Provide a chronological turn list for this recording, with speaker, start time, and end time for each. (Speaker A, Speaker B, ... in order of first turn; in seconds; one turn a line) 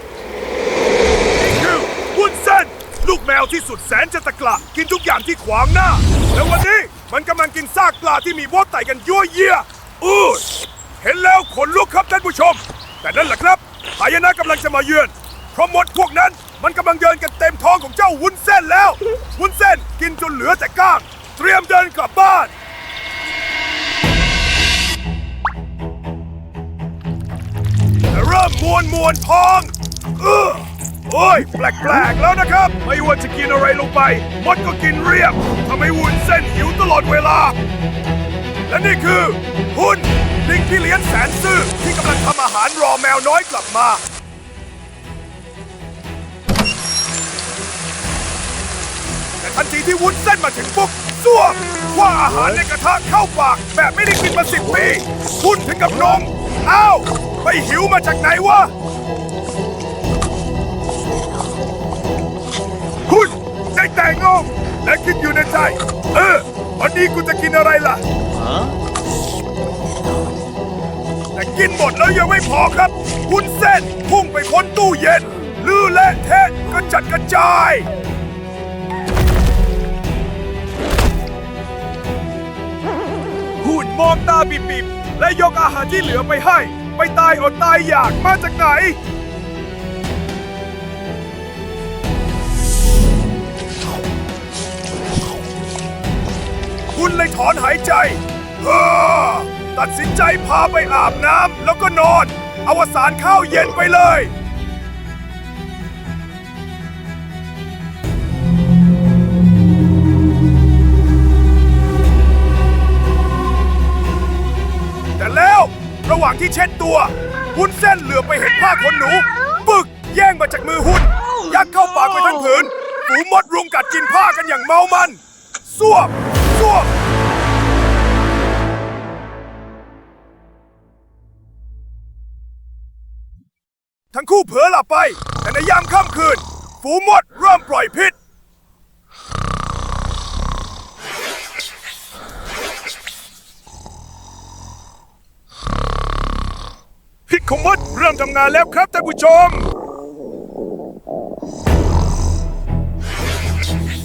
Speaker A: 1.4-10.4
Speaker A: 11.0-22.5
Speaker A: 28.1-37.6
Speaker A: 38.7-44.0
Speaker A: 49.4-58.7
Speaker A: 63.1-68.0
Speaker A: 71.3-77.9
Speaker A: 83.6-89.0
Speaker A: 96.9-104.3
Speaker A: 115.2-126.9
Speaker A: 134.1-138.1
Speaker A: 147.3-149.7